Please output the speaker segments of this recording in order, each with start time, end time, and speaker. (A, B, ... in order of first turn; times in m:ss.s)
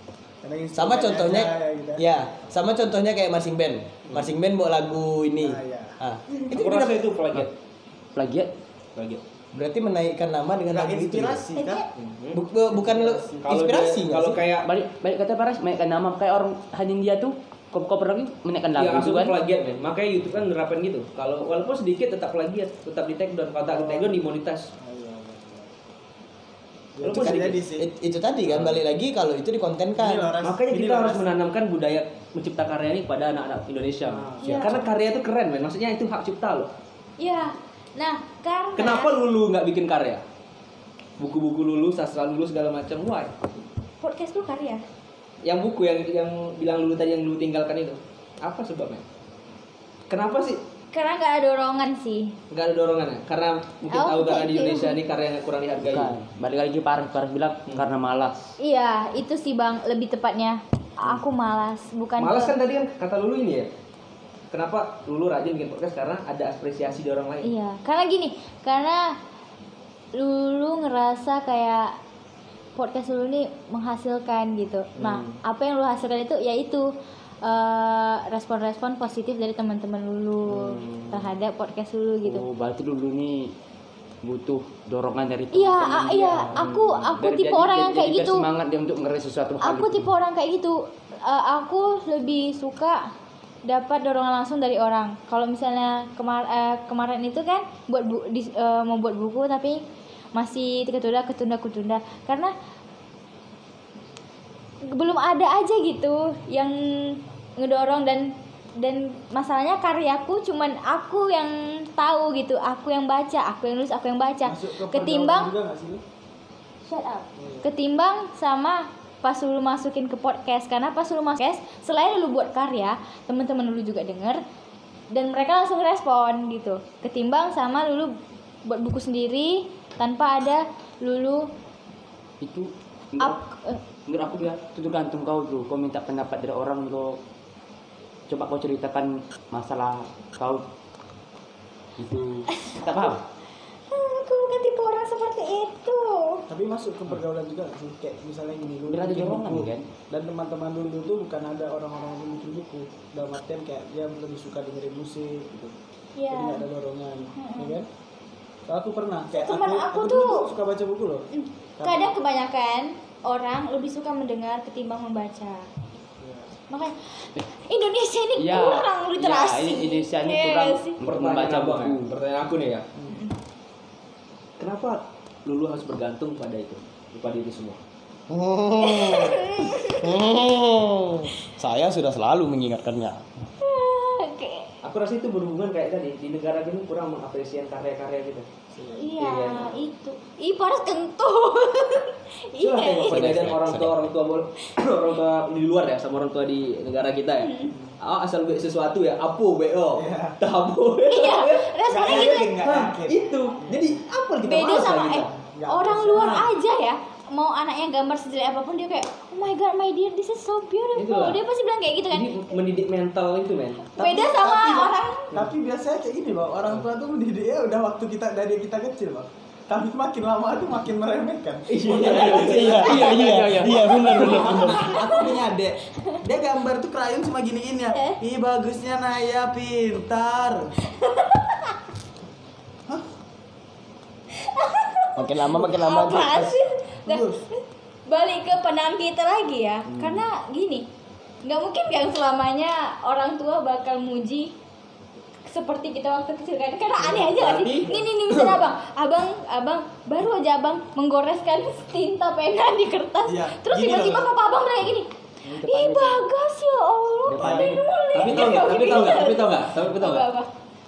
0:00.4-0:02.0 A
0:00.7-0:07.1 B
0:05.4-0:06.0 A
0:06.5-0:07.5 C
0:08.2-0:08.5 D
0:08.9-0:09.2 C
0:09.5-0:11.4 B
0:10.7-0:11.8 A
0:11.5-0:11.8 E
0:11.9-0:12.4 C
0:12.3-0:14.4 B
0:12.7-0:13.5 A
0:13.4-0:14.7 C
0:14.6-0:19.4 D
0:18.8-0:24.7 C
0:23.6-0:25.7 A
0:27.0-0:27.8 A
0:27.0-0:27.6 C
0:27.8-0:30.3 B
0:28.5-0:28.8 C
0:30.0-0:31.2 A
0:30.4-0:36.7 C
0:34.1-0:34.8 A
0:34.4-0:34.7 E
0:34.4-0:34.8 B
0:37.2-0:39.1 E
0:38.8-0:40.2 C
0:41.2-0:43.3 C
0:44.0-0:44.8 E
0:45.4-0:49.0 C
0:50.1-0:50.6 C
0:50.9-0:52.3 E
0:52.5-0:56.1 C
0:53.9-0:55.0 E
0:55.8-0:58.5 D
0:58.6-1:02.5 E
1:02.2-1:03.7 C
1:04.5-1:07.5 C
1:07.4-1:09.1 E
1:10.1-1:11.9 E
1:12.8-1:16.8 E
1:15.0-1:15.4 C
1:17.4-1:22.4 E
1:20.5-1:21.2 C
1:22.2-1:23.5 D
1:24.2-1:26.5 D
1:25.5-1:28.4 E
1:26.5-1:27.1 C
1:27.2-1:30.1 D
1:29.6-1:33.0 E
1:33.6-1:39.8 E
1:40.3-1:42.5 E
1:44.8-1:55.5 E
1:54.4-1:56.0 A
1:56.8-2:04.4 E
1:57.4-1:57.7 A
2:05.1-2:08.1 E
2:08.6-2:11.5 E
2:12.4-2:13.4 D
2:13.2-2:13.8 E
2:14.1-2:17.2 D
2:18.3-2:20.6 D
2:22.0-2:23.2 D
2:22.5-2:23.2 E
2:23.9-2:26.4 E
2:26.5-2:35.8 A
2:28.9-2:29.9 D
2:36.2-2:36.6 E
2:36.3-2:37.9 A
2:37.4-2:37.7 E
2:38.7-2:41.2 A
2:39.3-2:40.5 E
2:41.3-2:45.7 E
2:41.8-2:42.1 A
2:46.2-2:46.5 A
2:46.7-2:51.0 E
2:48.4-2:52.1 D
2:51.0-2:52.9 C
2:54.6-2:57.8 C
2:58.3-3:03.2 B
2:58.8-3:00.2 E
3:03.6-3:04.6 E
3:04.8-3:08.5 C
3:08.7-3:09.1 A
3:09.0-3:13.3 E
3:09.2-3:09.7 C
3:12.6-3:25.3 C
3:13.0-3:14.0 B
3:17.4-3:17.7 E
3:20.0-3:20.4 A
3:21.1-3:22.6 E
3:21.9-3:23.9 A
3:24.4-3:32.6 E
3:24.6-3:26.5 A
3:31.0-3:31.4 C
3:32.1-3:34.0 C
3:34.0-3:35.3 E
3:34.0-3:50.7 A
3:41.7-3:44.4 C
3:42.4-3:44.9 B
3:42.9-3:43.5 D
3:44.8-3:45.4 E
3:51.0-3:51.7 E
3:54.4-3:57.3 E
3:55.2-3:56.6 B
3:57.0-3:57.4 A
3:58.1-4:00.8 E
4:01.4-4:04.5 E
4:05.5-4:20.5 E
4:07.1-4:07.9 A
4:07.1-4:08.5 C
4:13.2-4:14.3 A
4:15.4-4:16.2 D
4:17.3-4:17.8 D
4:17.4-4:17.8 A
4:18.1-4:20.3 C